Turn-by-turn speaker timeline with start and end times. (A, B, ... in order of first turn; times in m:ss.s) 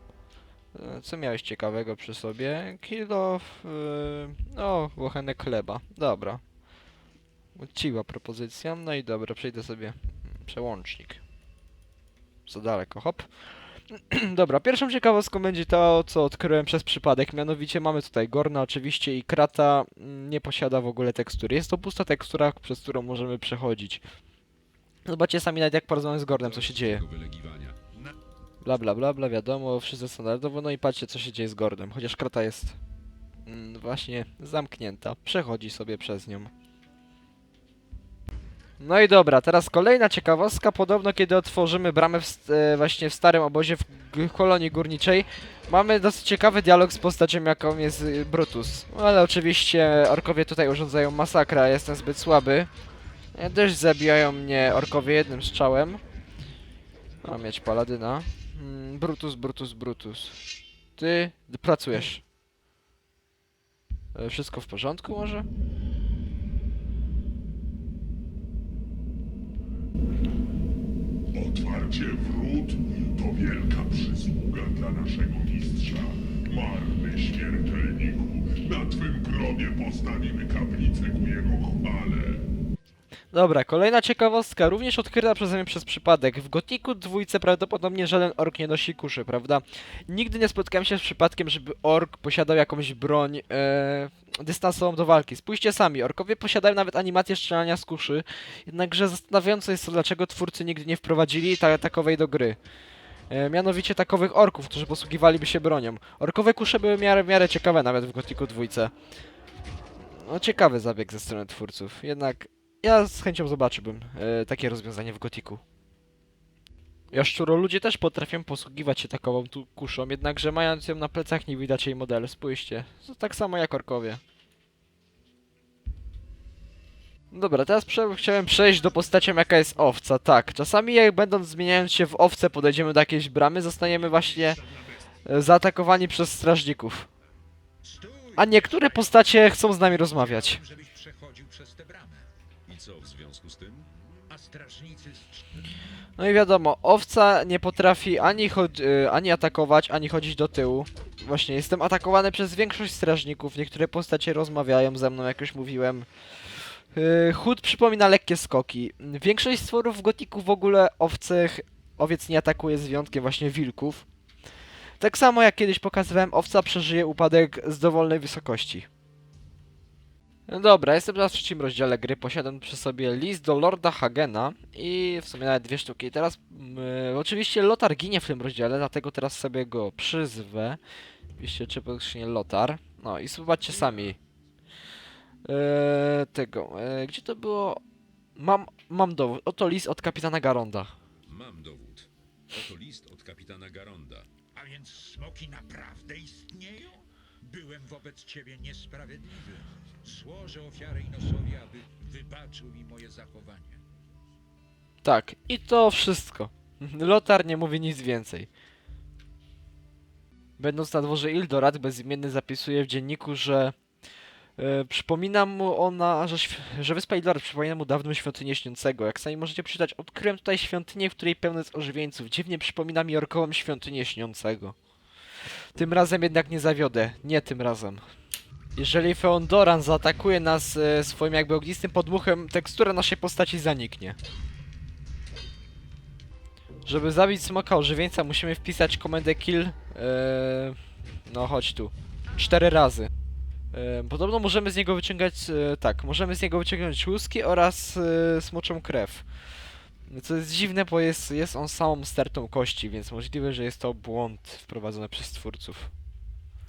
0:00.7-0:06.4 A
0:07.6-0:11.2 A
0:12.5-0:24.0 A
0:25.0-0:27.0 A
0:26.4-0:27.8 B
0:28.6-0:32.8 A
0:33.5-0:36.5 A
0:38.8-0:52.7 A
0:53.3-0:56.0 A
0:57.2-1:00.4 A
1:01.0-1:02.2 A
1:04.1-1:05.5 A
1:11.3-1:22.4 C
1:23.3-1:42.6 A
1:43.3-1:48.9 A
1:50.0-1:55.6 A
1:57.1-2:04.2 A
2:07.3-2:14.6 A
2:15.2-2:17.1 A
2:17.8-2:19.2 D
2:18.4-2:20.6 A
2:20.0-2:22.3 D
2:22.7-2:23.9 B
2:24.3-2:25.7 D
2:26.2-2:44.1 A
2:45.0-2:48.9 A
2:50.5-3:00.8 A
3:01.4-3:04.2 A
3:05.4-3:07.8 A
3:08.4-3:11.0 A
3:11.3-3:14.3 B
3:14.5-3:23.8 D
3:25.0-3:28.5 A
3:30.6-3:33.8 A
3:34.6-3:44.8 A
3:45.8-3:48.0 A
3:48.8-3:54.2 A
3:56.8-4:03.1 A
4:03.7-4:09.5 A
4:10.1-4:15.9 A